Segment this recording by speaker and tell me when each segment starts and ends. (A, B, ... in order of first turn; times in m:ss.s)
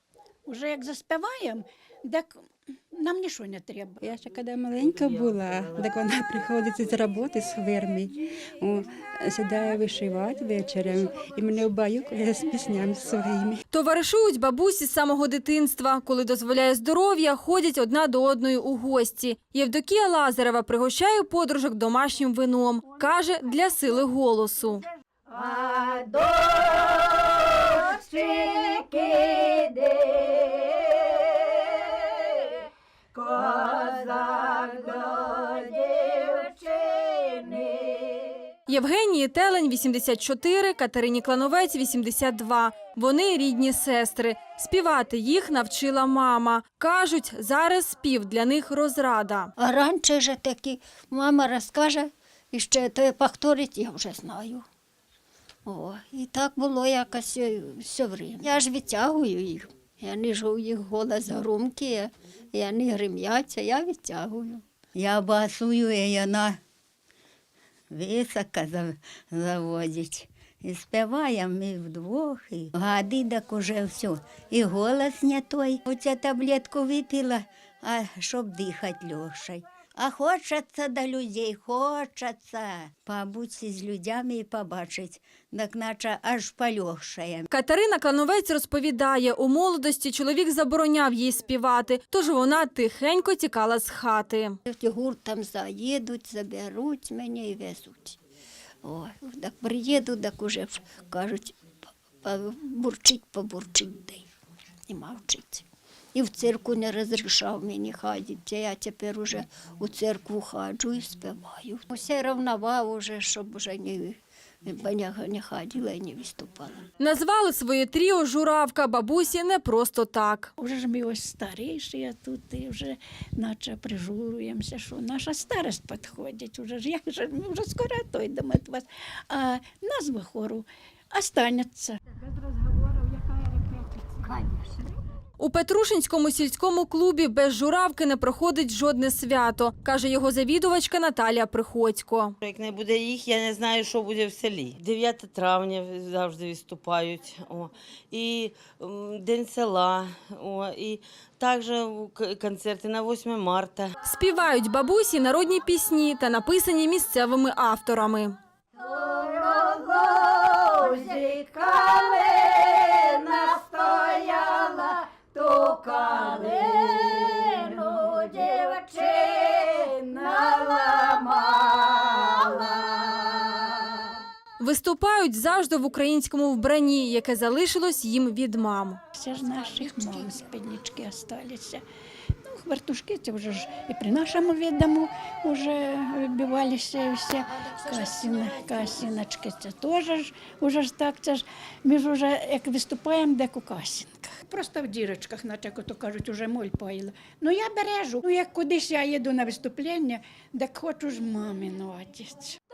0:00.4-0:04.0 A
0:04.0-0:13.6 B
0:04.9-0:05.7 C
0:13.7-0:24.8 D
0:25.3-0:27.0 E
0:27.6-0:30.4 E
0:33.2-0:35.6 E
0:36.3-0:36.6 E
0:38.7-0:49.5 D
0:49.6-0:54.6 E
0:55.6-1:04.6 E
1:04.9-1:06.6 F
1:07.9-1:27.5 F
1:27.5-1:34.6 D
1:34.7-1:38.2 E
1:38.8-1:44.2 E
1:44.9-1:56.8 E
1:57.0-2:00.5 D
2:00.6-2:14.6 A
2:15.4-2:22.3 D
2:22.4-2:33.9 C
2:34.0-2:38.4 D
2:39.6-2:41.2 E
2:43.5-2:44.2 E
2:46.1-2:47.4 E
2:48.0-2:48.6 E
2:54.6-2:59.0 D
2:59.1-3:01.8 A
2:59.8-3:00.1 E
3:02.4-3:22.6 A